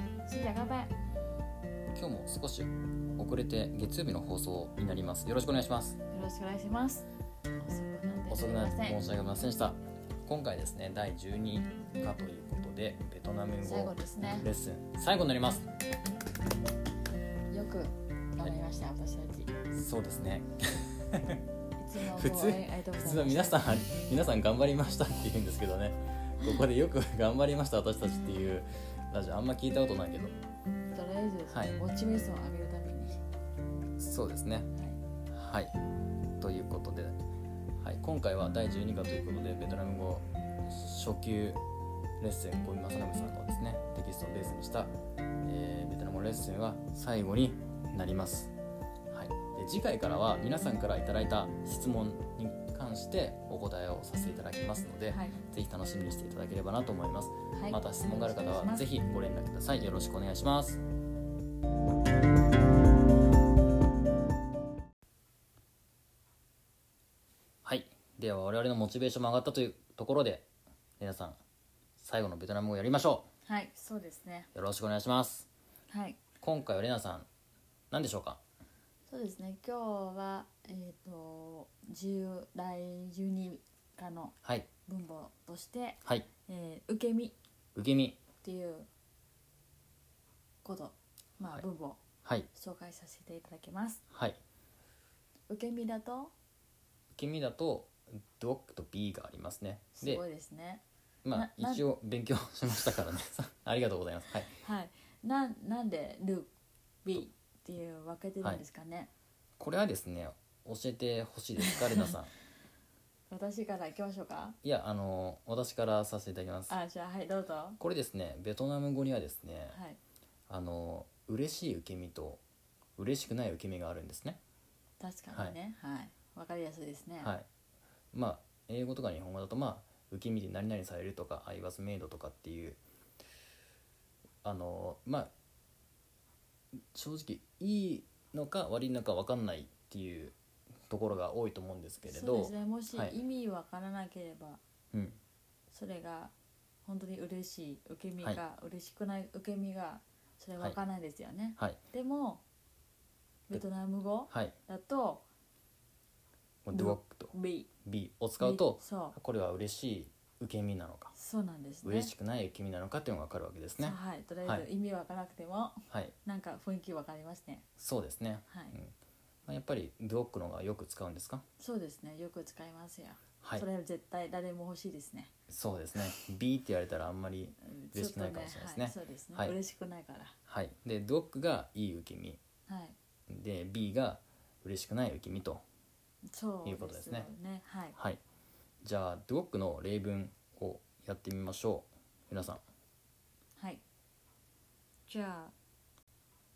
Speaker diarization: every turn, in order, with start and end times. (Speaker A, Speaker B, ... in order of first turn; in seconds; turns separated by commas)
Speaker A: 0.2-0.9, Speaker B: 1.9-6.0, Speaker A: 6.1-7.0, Speaker A: 7.6-9.0, Speaker B: 8.3-15.7, Speaker A: 13.6-14.5, Speaker A: 17.5-19.5, Speaker B: 19.7-21.4, Speaker A: 21.8-23.6, Speaker B: 22.1-30.3, Speaker A: 30.9-33.2, Speaker B: 31.5-31.8, Speaker B: 34.0-34.7, Speaker A: 34.7-35.0, Speaker B: 35.3-35.8, Speaker B: 36.4-37.2, Speaker B: 37.8-41.6, Speaker B: 42.2-48.5, Speaker B: 49.1-60.8, Speaker A: 55.1-55.4, Speaker A: 57.5-58.9, Speaker B: 67.6-70.5, Speaker B: 71.0-71.4, Speaker B: 72.0-73.2, Speaker A: 73.5-74.5, Speaker B: 74.5-75.5, Speaker A: 75.9-76.2, Speaker B: 76.4-77.3, Speaker B: 77.9-78.4, Speaker A: 79.1-84.3, Speaker A: 84.9-87.3, Speaker B: 87.7-88.2, Speaker A: 88.4-88.9, Speaker A: 90.6-92.0, Speaker A: 92.5-94.0, Speaker B: 94.1-94.4, Speaker A: 95.5-96.3, Speaker B: 97.1-100.2, Speaker A: 100.0-100.8, Speaker B: 101.2-104.5, Speaker A: 101.3-101.8, Speaker A: 104.6-106.5, Speaker A: 107.0-109.1, Speaker B: 109.6-112.3, Speaker A: 111.7-112.1, Speaker A: 113.3-114.5, Speaker B: 114.6-116.7, Speaker A: 116.7-117.8, Speaker B: 117.8-119.8, Speaker A: 119.7-120.0, Speaker B: 120.5-122.4, Speaker B: 123.0-124.4, Speaker A: 125.0-127.3, Speaker B: 127.2-127.5, Speaker B: 128.1-132.8, Speaker B: 134.4-135.3, Speaker B: 136.9-140.3, Speaker B: 140.9-143.2, Speaker A: 142.0-144.6, Speaker B: 144.9-145.2, Speaker A: 145.7-146.3, Speaker A: 146.8-152.4, Speaker A: 153.5-155.2, Speaker B: 154.3-154.5, Speaker B: 156.6-157.3, Speaker A: 156.7-157.7, Speaker B: 157.8-161.1, Speaker A: 158.4-159.2, Speaker A: 161.1-162.1, Speaker B: 161.8-164.7, Speaker A: 163.8-167.6, Speaker B: 167.8-168.9, Speaker A: 168.5-168.7, Speaker B: 169.5-171.4, Speaker A: 171.6-175.3, Speaker B: 175.5-179.5, Speaker A: 177.6-180.3, Speaker B: 180.5-182.4, Speaker A: 182.7-182.9, Speaker B: 183.3-185.6, Speaker A: 186.3-187.9, Speaker B: 186.6-187.3, Speaker B: 188.8-192.6, Speaker A: 193.6-193.8, Speaker A: 195.1-195.5